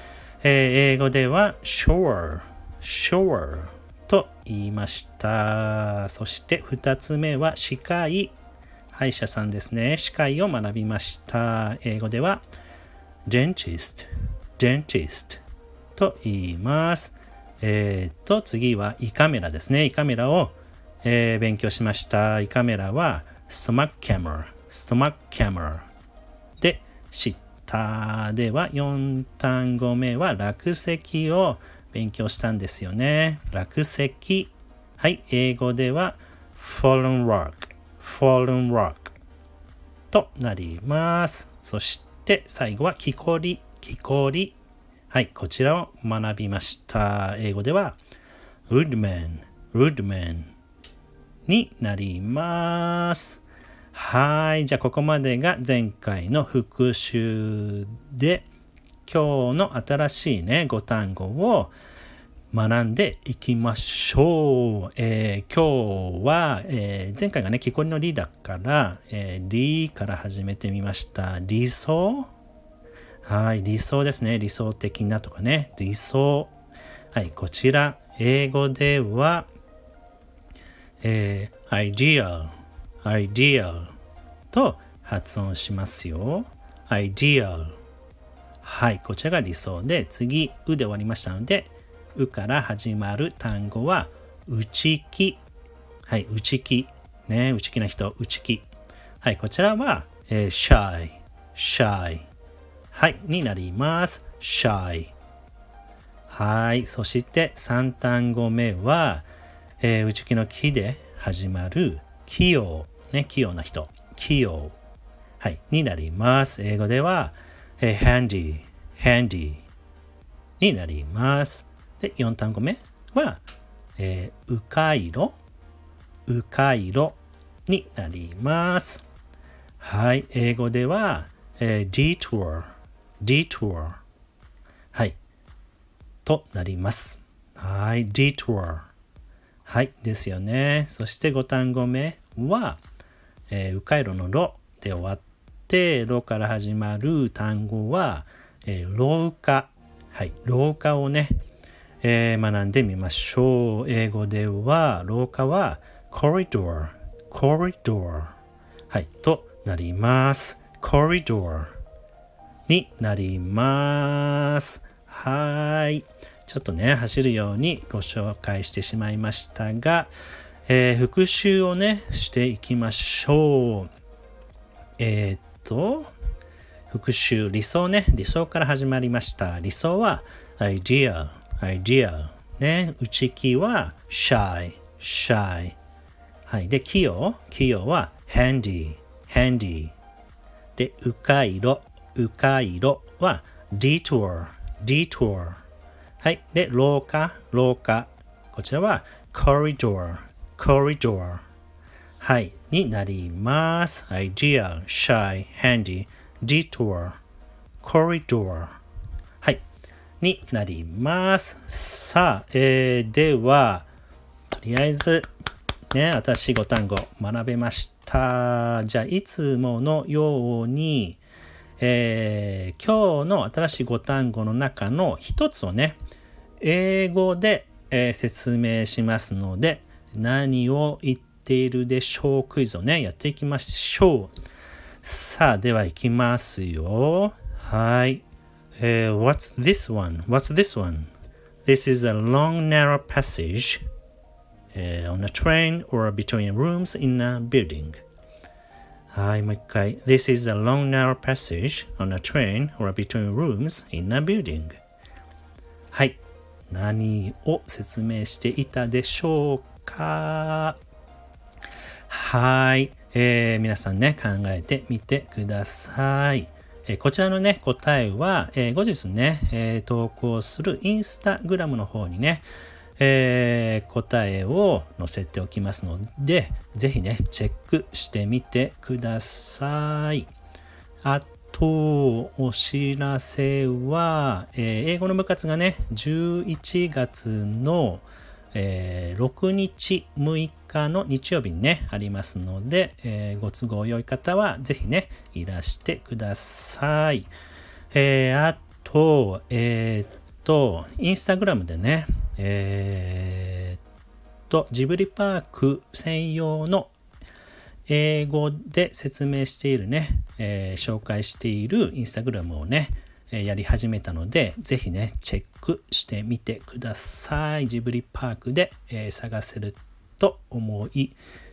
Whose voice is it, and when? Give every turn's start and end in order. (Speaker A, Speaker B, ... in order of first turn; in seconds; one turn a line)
Speaker A: 0.4-8.3
Speaker A: 8.9-12.4
Speaker A: 13.3-15.4
Speaker A: 16.0-25.9
Speaker A: 26.6-39.1
Speaker A: 40.1-44.6
Speaker A: 45.1-48.0
Speaker A: 48.7-50.5
Speaker A: 51.5-58.5
Speaker A: 59.1-61.8
Speaker A: 62.5-72.3
Speaker A: 73.2-76.5
Speaker A: 77.1-79.5
Speaker A: 81.0-83.9
Speaker A: 84.5-87.8
Speaker A: 88.6-95.4
Speaker A: 96.1-98.7
Speaker A: 99.2-102.3
Speaker A: 102.9-105.1
Speaker A: 106.3-109.3
Speaker A: 109.8-114.8
Speaker A: 115.4-119.7
Speaker A: 120.6-123.4
Speaker A: 124.0-125.4
Speaker A: 126.3-129.0
Speaker A: 129.8-134.0
Speaker A: 134.9-135.2
Speaker A: 136.2-138.9
Speaker A: 139.7-142.8
Speaker A: 143.5-151.4
Speaker A: 152.0-158.3
Speaker A: 158.9-161.8
Speaker A: 162.7-170.1
Speaker A: 170.7-173.9
Speaker A: 175.0-176.1
Speaker A: 176.9-185.8
Speaker A: 186.5-189.9
Speaker A: 190.8-195.6
Speaker A: 196.2-201.4
Speaker A: 202.2-207.2
Speaker A: 207.8-208.8
Speaker A: 210.2-213.9
Speaker A: 214.5-215.3
Speaker A: 215.9-221.2
Speaker A: 221.8-226.0
Speaker A: 226.6-234.3
Speaker A: 235.0-238.2
Speaker A: 238.8-241.1
Speaker A: 241.7-243.8
Speaker A: 244.7-248.0
Speaker A: 249.1-254.8
Speaker A: 255.9-260.8
Speaker A: 262.1-272.5
Speaker A: 273.0-280.3
Speaker A: 281.0-297.3
Speaker A: 297.9-303.8
Speaker A: 304.5-306.9
Speaker A: 307.9-321.2